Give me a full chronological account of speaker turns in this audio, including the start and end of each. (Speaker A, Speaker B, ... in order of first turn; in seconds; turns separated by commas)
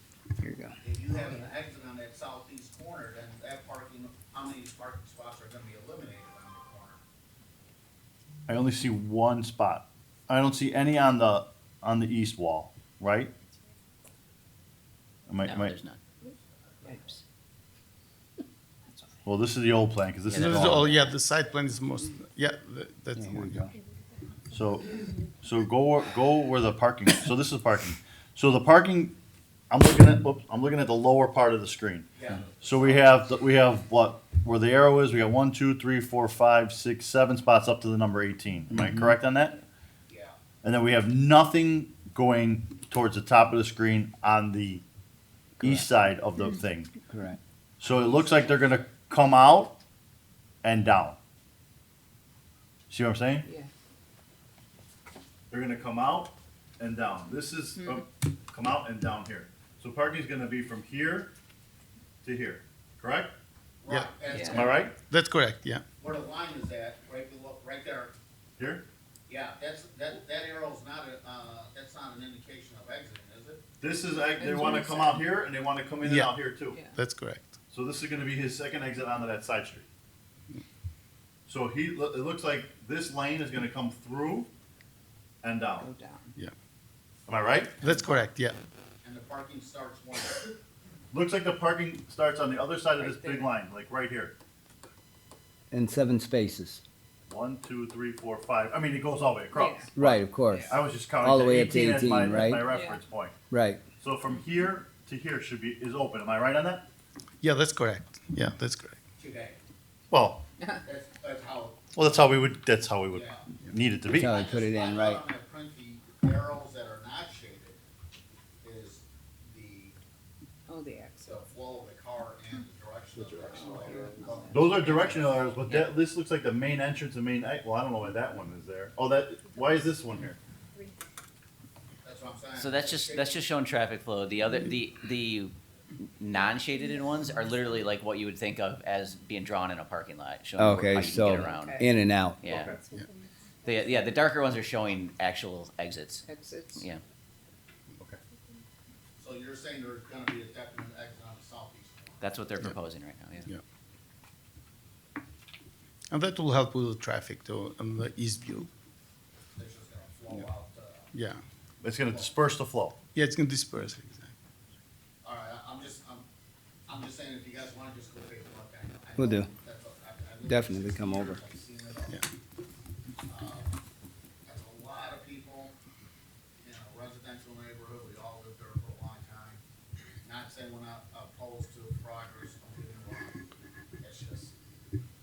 Speaker A: 0.4-0.7, Speaker B: 0.8-7.0, Speaker C: 8.5-13.3, Speaker C: 15.3-15.8, Speaker D: 15.4-16.0, Speaker E: 16.8-17.2, Speaker C: 19.2-20.9, Speaker D: 20.2-21.1, Speaker F: 20.3-23.7, Speaker A: 23.1-23.7, Speaker C: 24.5-29.1, Speaker C: 29.7-39.6, Speaker B: 32.1-33.3, Speaker A: 38.7-39.1, Speaker B: 40.1-40.4, Speaker C: 40.6-44.8, Speaker A: 45.6-45.9, Speaker C: 45.6-47.0, Speaker A: 47.1-47.4, Speaker C: 47.8-49.8, Speaker B: 48.0-48.8, Speaker C: 50.6-51.2, Speaker C: 52.9-53.5, Speaker E: 53.4-53.7, Speaker C: 55.5-61.3, Speaker E: 57.8-58.0, Speaker C: 62.2-63.3, Speaker B: 63.8-64.9, Speaker E: 64.3-64.7, Speaker C: 64.5-64.9, Speaker F: 65.0-65.8, Speaker B: 66.0-68.1, Speaker C: 68.6-68.8, Speaker B: 69.3-73.6, Speaker C: 73.8-76.8, Speaker E: 74.4-75.2, Speaker F: 76.0-76.4, Speaker E: 76.6-77.0, Speaker F: 76.9-77.5, Speaker C: 77.7-79.8, Speaker C: 81.5-84.5, Speaker C: 85.4-85.9, Speaker E: 85.8-86.3, Speaker C: 87.3-87.8, Speaker F: 87.8-88.5, Speaker B: 89.0-90.5, Speaker C: 91.1-94.3, Speaker E: 93.0-93.5, Speaker A: 95.7-96.8, Speaker C: 97.3-103.3, Speaker E: 99.5-99.9, Speaker A: 99.9-102.7, Speaker E: 100.5-100.8, Speaker E: 102.6-103.0, Speaker A: 103.5-103.8, Speaker C: 104.0-106.8, Speaker F: 107.4-109.0, Speaker B: 109.2-109.6, Speaker C: 110.1-110.4, Speaker B: 110.8-111.8, Speaker C: 111.9-114.3, Speaker B: 113.1-113.5, Speaker A: 114.1-115.2, Speaker B: 114.2-117.8, Speaker B: 118.6-120.0, Speaker E: 120.7-121.4, Speaker B: 121.2-125.6, Speaker A: 123.2-124.2, Speaker E: 123.4-124.8, Speaker C: 124.5-130.4, Speaker D: 125.6-125.9, Speaker B: 132.0-133.4, Speaker D: 132.6-141.8, Speaker A: 140.6-142.5, Speaker E: 141.4-141.9, Speaker D: 142.4-142.7, Speaker C: 142.5-142.8, Speaker D: 143.6-146.2, Speaker E: 146.2-146.8, Speaker D: 146.8-147.0, Speaker B: 149.2-152.3, Speaker D: 152.2-153.5, Speaker F: 156.1-158.7, Speaker B: 159.6-161.1, Speaker F: 161.1-161.4, Speaker C: 161.8-163.0, Speaker B: 162.0-162.3, Speaker F: 163.1-164.3, Speaker B: 165.2-166.2, Speaker B: 166.9-172.2, Speaker A: 169.2-169.5, Speaker A: 170.4-171.4, Speaker B: 173.2-173.8, Speaker B: 174.4-175.7, Speaker B: 176.6-179.6, Speaker B: 180.2-183.4, Speaker B: 184.0-184.5